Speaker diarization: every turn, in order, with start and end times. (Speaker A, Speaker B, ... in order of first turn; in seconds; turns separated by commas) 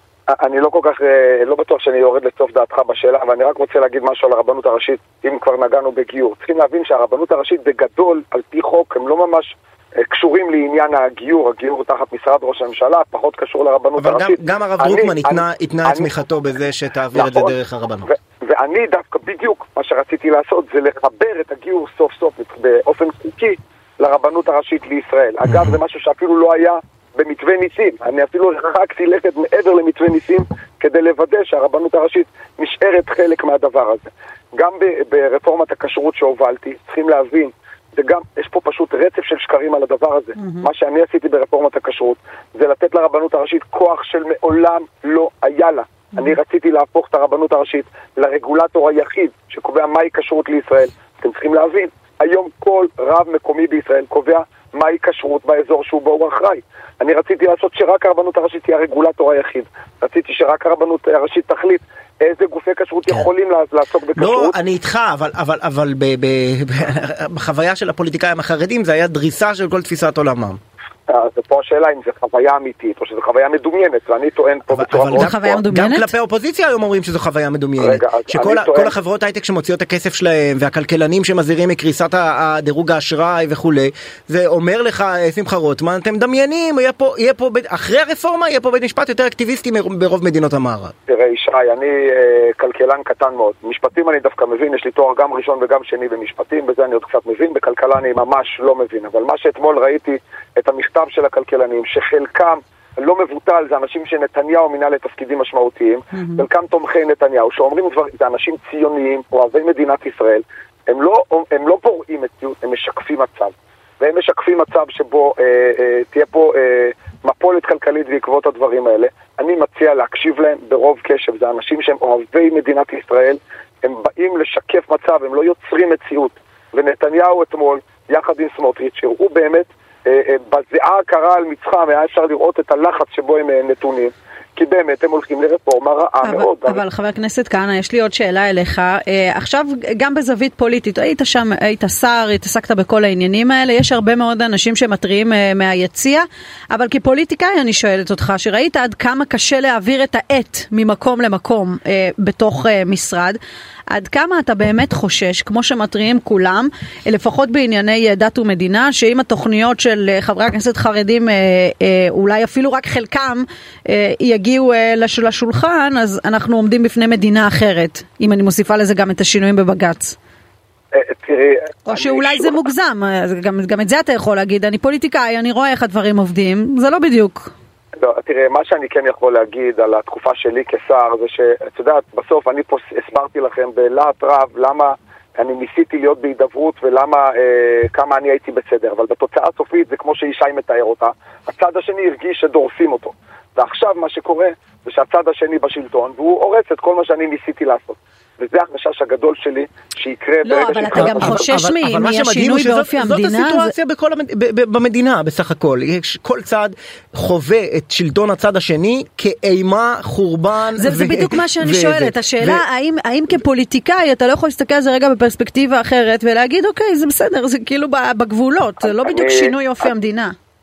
Speaker A: 0.3-16.1, Speaker B: 14.0-18.1, Speaker A: 17.1-64.6, Speaker C: 40.4-40.7, Speaker B: 64.2-70.6, Speaker A: 71.1-75.6, Speaker B: 74.7-90.9, Speaker C: 75.1-76.1, Speaker A: 77.8-78.9, Speaker A: 91.1-136.8, Speaker C: 106.2-106.4, Speaker C: 136.2-153.4, Speaker C: 153.9-170.2, Speaker A: 170.9-172.6, Speaker C: 171.8-177.5, Speaker A: 178.0-201.5, Speaker C: 200.4-203.7, Speaker B: 200.9-212.6, Speaker C: 210.8-220.3, Speaker A: 218.8-219.9